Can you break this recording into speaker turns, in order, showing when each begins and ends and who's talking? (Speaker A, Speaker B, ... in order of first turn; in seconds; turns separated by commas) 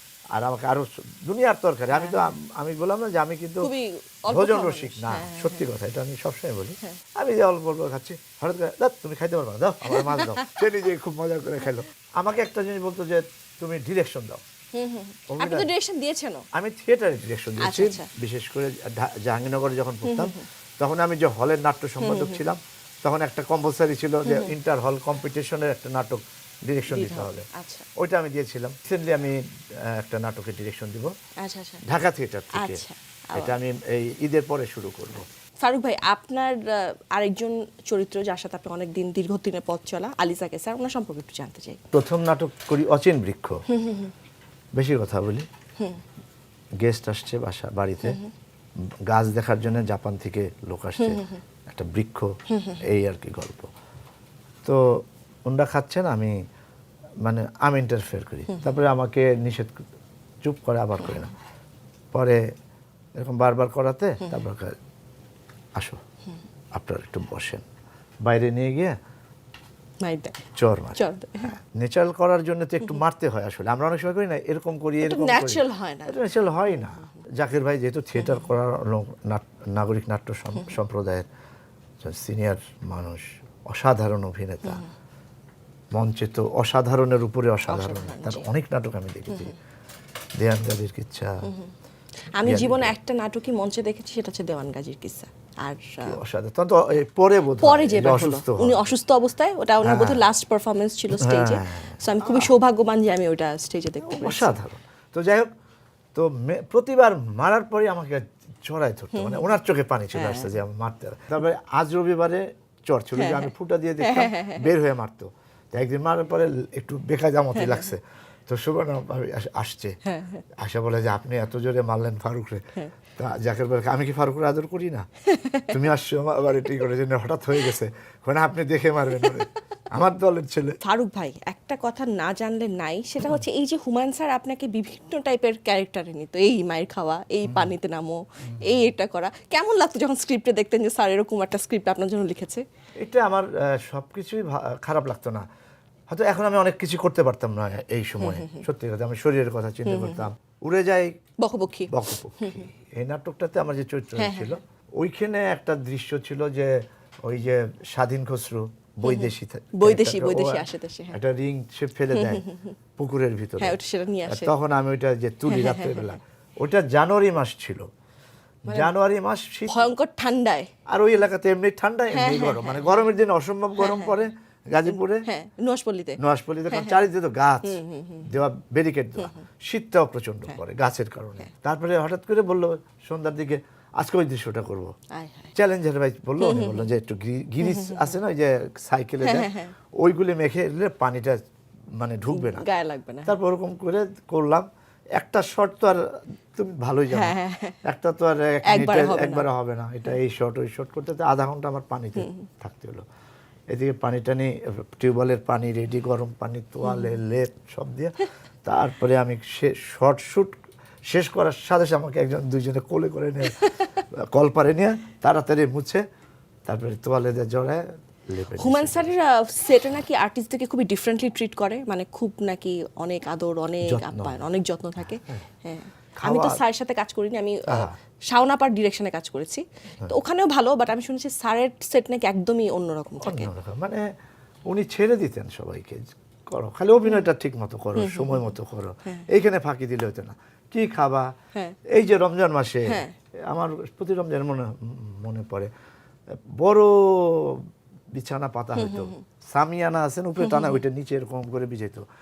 Speaker A: 0.3-3.7, Speaker B: 1.9-2.3, Speaker B: 3.6-5.7, Speaker A: 4.3-14.4, Speaker B: 9.9-10.6, Speaker B: 14.7-16.4, Speaker A: 15.3-15.7, Speaker A: 16.5-27.5, Speaker B: 17.6-18.1, Speaker B: 20.0-20.4, Speaker B: 22.0-22.5, Speaker B: 24.3-24.5, Speaker B: 26.9-27.9, Speaker A: 28.0-31.1, Speaker B: 31.4-31.9, Speaker A: 31.9-35.3, Speaker B: 32.5-33.6, Speaker B: 35.6-41.8, Speaker A: 41.9-43.6, Speaker B: 43.7-44.1, Speaker A: 44.8-45.5, Speaker A: 46.8-48.2, Speaker B: 48.0-48.3, Speaker A: 49.1-53.7, Speaker B: 51.0-51.4, Speaker B: 52.5-52.8, Speaker A: 54.6-56.3, Speaker A: 57.2-59.8, Speaker B: 58.5-58.8, Speaker A: 60.4-61.3, Speaker A: 62.1-62.4, Speaker A: 63.2-64.8, Speaker A: 66.8-67.6, Speaker A: 68.2-69.0, Speaker B: 70.0-70.4, Speaker A: 70.6-81.3, Speaker B: 71.0-71.5, Speaker B: 75.0-76.2, Speaker A: 82.0-84.8, Speaker B: 84.6-84.9, Speaker A: 85.9-89.5, Speaker B: 87.7-88.5, Speaker B: 89.3-89.6, Speaker A: 90.4-91.5, Speaker B: 91.5-91.7, Speaker B: 92.4-96.2, Speaker A: 92.4-92.9, Speaker A: 96.0-98.9, Speaker B: 97.6-104.6, Speaker A: 99.8-100.2, Speaker A: 101.1-102.5, Speaker A: 104.0-105.5, Speaker A: 106.2-120.0, Speaker B: 109.1-109.6, Speaker B: 110.1-110.5, Speaker B: 113.1-114.7, Speaker B: 117.5-117.9, Speaker B: 120.1-120.4, Speaker A: 120.6-122.6, Speaker A: 123.2-125.1, Speaker B: 125.3-125.7, Speaker A: 125.7-130.8, Speaker B: 129.2-129.4, Speaker B: 130.8-142.6, Speaker A: 137.4-137.7, Speaker A: 143.0-145.5, Speaker A: 146.1-151.1, Speaker B: 148.2-148.7, Speaker B: 149.8-150.3, Speaker B: 151.4-152.7, Speaker A: 151.9-162.4, Speaker B: 154.2-154.6, Speaker B: 159.0-161.2, Speaker B: 162.1-162.8, Speaker A: 163.0-167.9, Speaker B: 163.6-164.5, Speaker B: 165.5-166.2, Speaker A: 168.7-169.9, Speaker B: 168.7-168.9, Speaker B: 169.7-170.7, Speaker A: 170.9-175.3, Speaker B: 172.1-173.0, Speaker B: 173.8-174.2, Speaker B: 175.2-177.1, Speaker A: 176.2-184.9, Speaker B: 177.6-178.3, Speaker B: 185.1-185.6, Speaker A: 185.6-191.4, Speaker B: 186.4-186.9, Speaker B: 187.6-188.1, Speaker B: 189.2-189.7, Speaker A: 192.0-192.7, Speaker B: 192.3-193.3, Speaker A: 193.3-196.0, Speaker A: 196.6-203.0, Speaker B: 197.1-197.8, Speaker B: 198.6-199.5, Speaker B: 202.2-202.4, Speaker A: 203.7-210.6, Speaker B: 206.8-207.2, Speaker A: 211.1-213.7, Speaker B: 213.6-214.0, Speaker A: 214.3-216.0, Speaker A: 216.7-219.1, Speaker B: 218.6-233.5, Speaker A: 223.8-224.5, Speaker A: 226.2-226.6, Speaker A: 227.7-228.0, Speaker A: 233.2-234.0, Speaker A: 234.7-241.3, Speaker B: 238.0-238.5, Speaker A: 241.9-245.7, Speaker B: 242.9-243.2, Speaker A: 246.6-252.1, Speaker B: 248.8-249.2, Speaker B: 250.4-250.8